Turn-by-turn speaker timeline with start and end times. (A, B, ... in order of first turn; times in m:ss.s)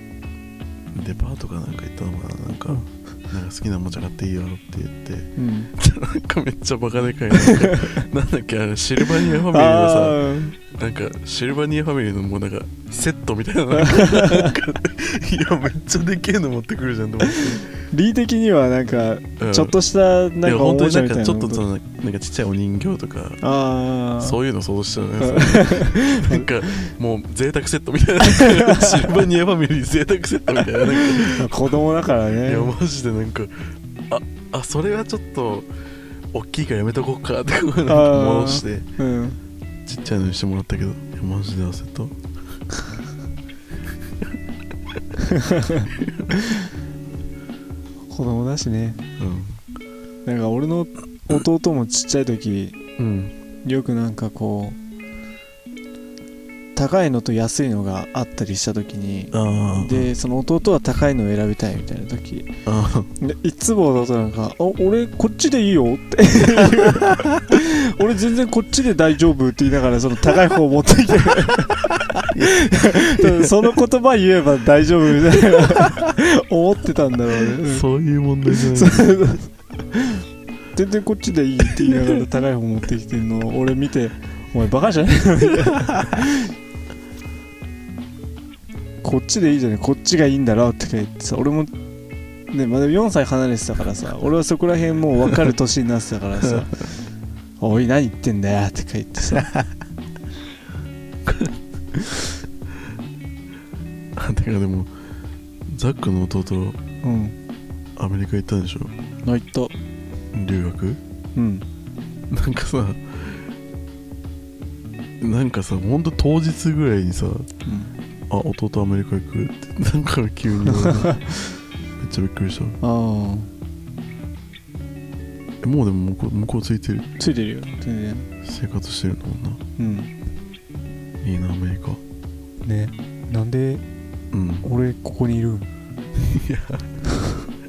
0:00.9-0:17.7 A
0:05.4-0:05.7 B
0:07.4-0:08.0 B
0:09.0-0:10.6 B
0:13.8-0:14.6 B
0:17.3-0:21.6 B
0:19.4-0:19.8 A
0:20.4-0:23.4 A
0:23.4-0:24.4 B
0:24.2-0:31.7 A
0:25.2-0:26.9 B
0:28.2-0:29.1 B
0:30.8-0:32.7 B
0:32.4-0:35.7 A
0:36.3-0:38.9 A
0:37.9-0:39.4 B
0:39.8-0:42.2 A
0:45.2-0:46.7 B
0:45.9-0:46.3 A
0:48.1-0:49.0 B
0:49.2-0:49.6 A
0:50.2-0:52.8 B
0:53.0-0:53.3 A
0:53.6-0:54.8 B
0:56.8-1:02.5 B
0:59.3-1:00.1 A
1:02.6-1:03.1 A
1:03.2-1:17.8 B
1:06.9-1:07.3 A
1:12.1-1:13.5 A
1:17.6-1:19.1 A
1:18.5-1:26.5 B
1:29.0-1:31.7 B
1:32.5-1:36.9 B
1:37.6-1:39.5 B
1:41.2-1:41.6 A
1:44.2-1:44.9 A
1:45.7-1:46.8 A
1:47.0-1:47.4 B
1:48.0-1:48.9 A
1:49.2-1:49.7 B
1:50.3-1:51.0 A
1:51.3-1:51.6 B
1:52.3-1:53.4 A
1:55.2-1:57.5 A
1:57.6-1:57.9 B
1:58.3-2:01.3 A
2:00.7-2:01.3 B
2:02.0-2:02.8 A
2:02.8-2:03.5 B
2:05.6-2:07.1 A
2:07.2-2:08.3 B
2:08.4-2:09.6 A
2:09.8-2:10.1 B
2:11.2-2:12.0 A
2:12.6-2:13.8 B
2:14.3-2:14.7 A
2:14.6-2:15.7 B
2:16.2-2:16.9 A
2:17.1-2:17.4 B